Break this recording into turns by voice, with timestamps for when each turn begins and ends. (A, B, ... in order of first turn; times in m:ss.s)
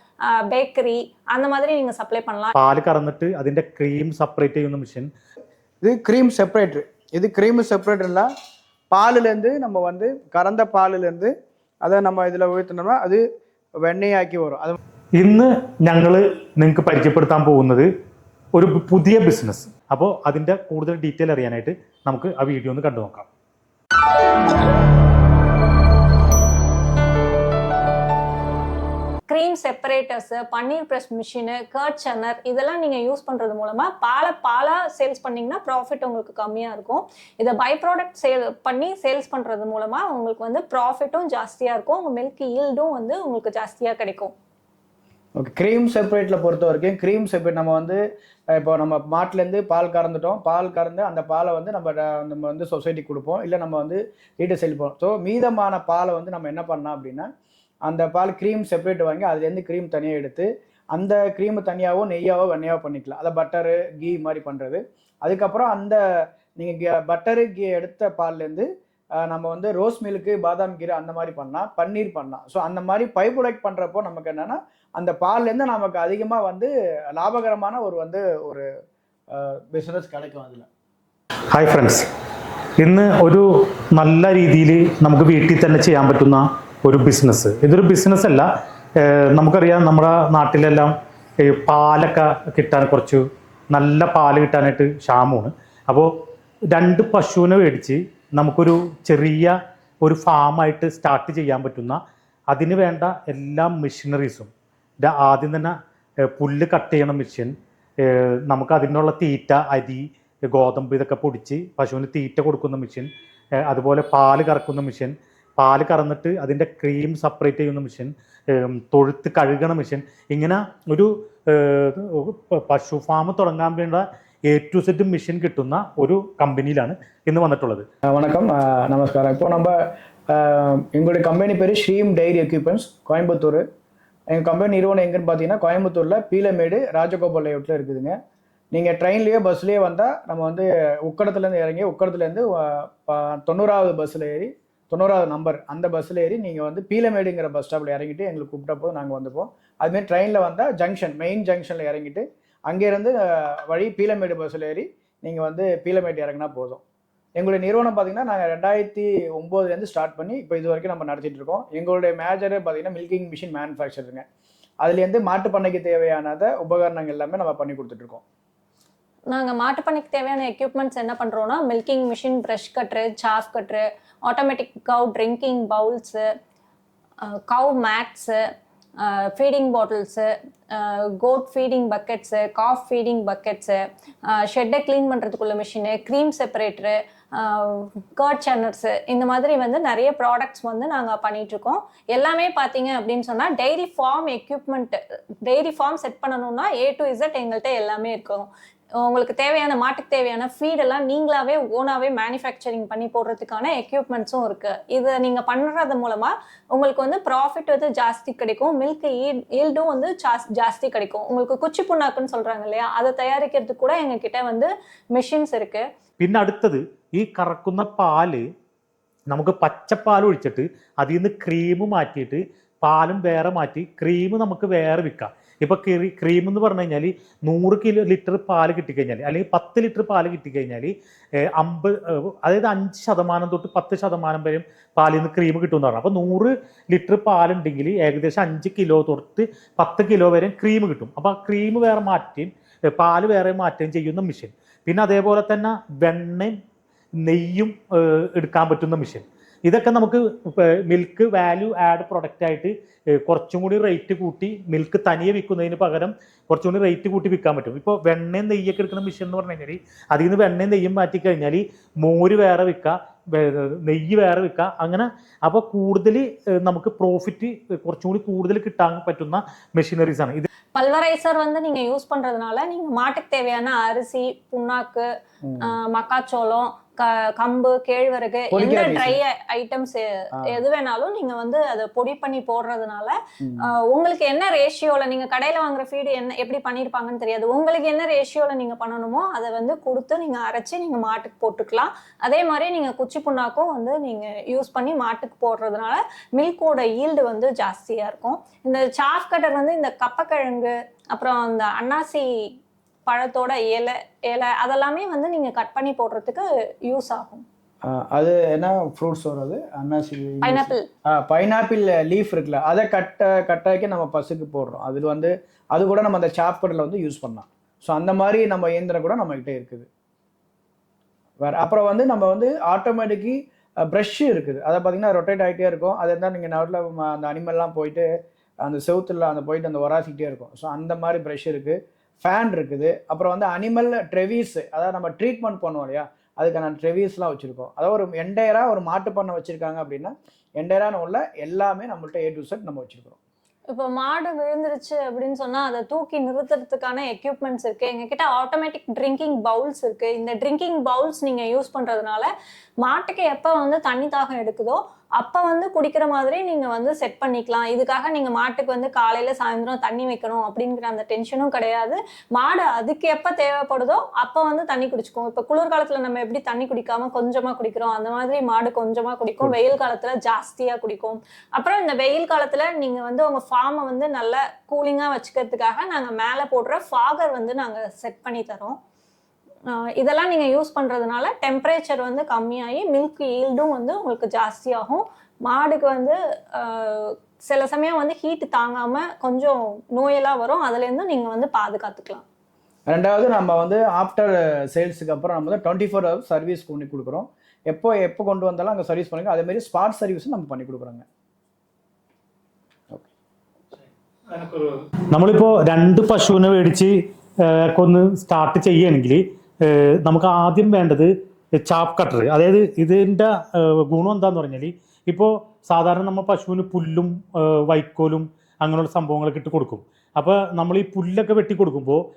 0:00.3-0:02.5 A
0:02.6-0:05.1 B
0:05.8-0:08.3 C
0:08.9-0:11.3 C
0:11.8-0:13.2 C
0:13.8-0:14.8 C
0:15.2-0:17.9 B
0:18.6-0:23.3 B
0:29.3-0:44.3 A
0:45.4-0:48.0 C
0:48.5-0:57.3 C
0:57.9-1:06.0 C
1:06.6-1:08.7 C
1:09.2-1:18.7 C
1:19.3-1:20.7 C
1:21.5-1:22.1 B
1:22.8-1:28.5 B
1:29.0-1:36.1 B
1:36.7-1:42.0 B
1:42.5-1:44.5 B
1:45.0-1:45.7 B
1:46.3-1:53.1 B
1:53.7-2:07.8 B
2:08.1-2:09.8 C
2:10.3-2:13.6 C
2:14.3-2:18.2 C
2:18.7-2:36.8 C
2:37.4-2:44.2 C
2:44.8-2:48.2 C
2:49.3-2:56.2 A
2:57.3-2:58.4 A
2:59.0-3:03.8 A
3:04.3-3:18.5 A
3:19.0-3:35.8 A
3:36.2-3:38.4 B
3:39.3-3:50.9 B
3:51.6-4:06.6 B
4:07.2-4:30.5 B
4:30.7-4:35.1 A
4:35.4-4:35.7 C
4:35.6-5:02.3 A
4:38.5-4:39.2 C
4:43.4-4:43.7 C
5:03.1-5:07.4 A
5:07.8-5:19.9 C
5:10.4-5:10.8 A
5:21.4-5:28.1 C
5:28.6-5:43.2 C
5:43.7-5:52.3 A
5:52.8-6:18.8 A
6:19.7-6:32.2 A
6:32.9-6:41.0 C
6:44.3-6:51.1 B
6:51.6-7:02.0 B